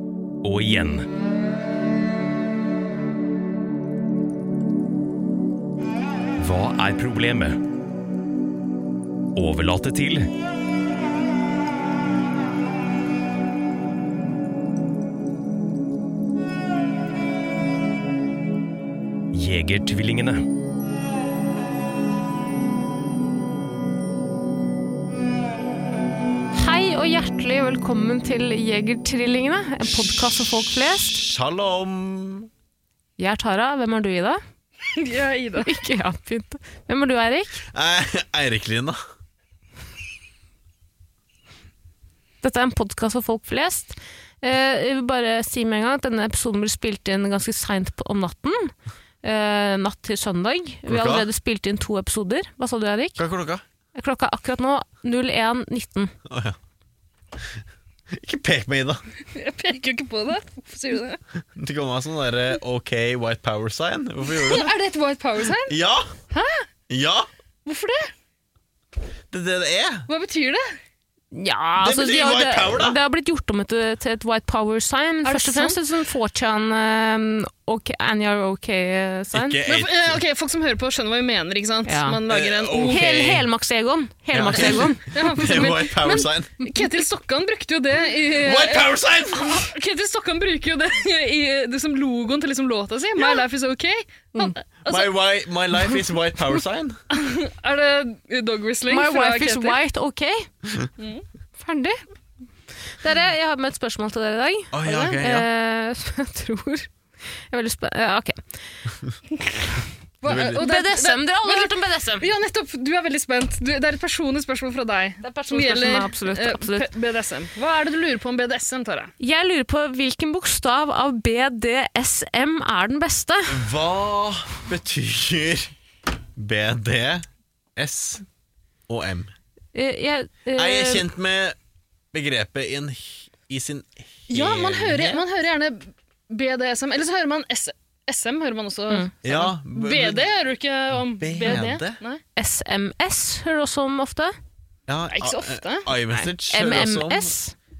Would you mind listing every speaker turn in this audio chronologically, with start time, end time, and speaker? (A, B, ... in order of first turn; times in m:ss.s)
0:00.4-0:01.1 A
0:06.4-0:07.6 A
0:09.4-0:10.3 A
0:19.3-0:20.4 A
0:26.5-0:31.2 B
0:30.7-0:32.5 C
0:33.2-0:34.4 B
0:35.0-0:35.7 D
0:35.6-0:37.6 B
0:37.7-0:39.0 C
0:42.4-0:53.2 B
0:50.9-0:51.3 C
0:53.2-0:53.6 C
0:54.0-0:56.1 B
0:56.3-0:56.6 C
0:58.1-0:59.0 C
0:59.3-1:01.2 D
1:01.6-1:04.7 C
1:04.4-1:05.8 D
1:05.7-1:06.1 C
1:06.3-1:06.7 D
1:06.9-1:07.3 C
1:07.7-1:08.1 D
1:09.3-1:10.1 C
1:10.1-1:10.7 D
1:11.3-1:19.6 B
1:11.8-1:13.0 C
1:15.2-1:15.8 D
1:19.3-1:20.2 C
1:19.7-1:23.4 D
1:21.8-1:22.2 B
1:22.3-1:23.4 C
1:22.8-1:25.8 B
1:24.3-1:26.5 C
1:24.5-1:35.1 D
1:28.4-1:29.7 C
1:34.8-1:37.0 C
1:37.1-1:39.8 D
1:38.9-1:40.5 B
1:41.0-1:41.3 D
1:41.6-1:42.0 B
1:43.0-1:46.9 B
1:44.7-1:45.5 C
1:44.8-1:45.2 D
1:47.5-1:48.6 B
1:50.2-1:59.1 D
1:50.3-1:50.6 C
1:50.5-1:52.3 B
1:55.2-1:56.9 B
1:59.2-2:03.7 B
2:03.5-2:05.7 C
2:06.4-2:08.2 C
2:08.9-2:09.3 C
2:09.8-2:11.0 B
2:10.6-2:11.6 C
2:12.1-2:15.2 C
2:14.3-2:22.2 D
2:19.2-2:20.3 C
2:21.2-2:22.0 C
2:22.4-2:24.4 B
2:24.9-2:27.3 C
2:25.1-2:25.9 D
2:26.1-2:27.6 B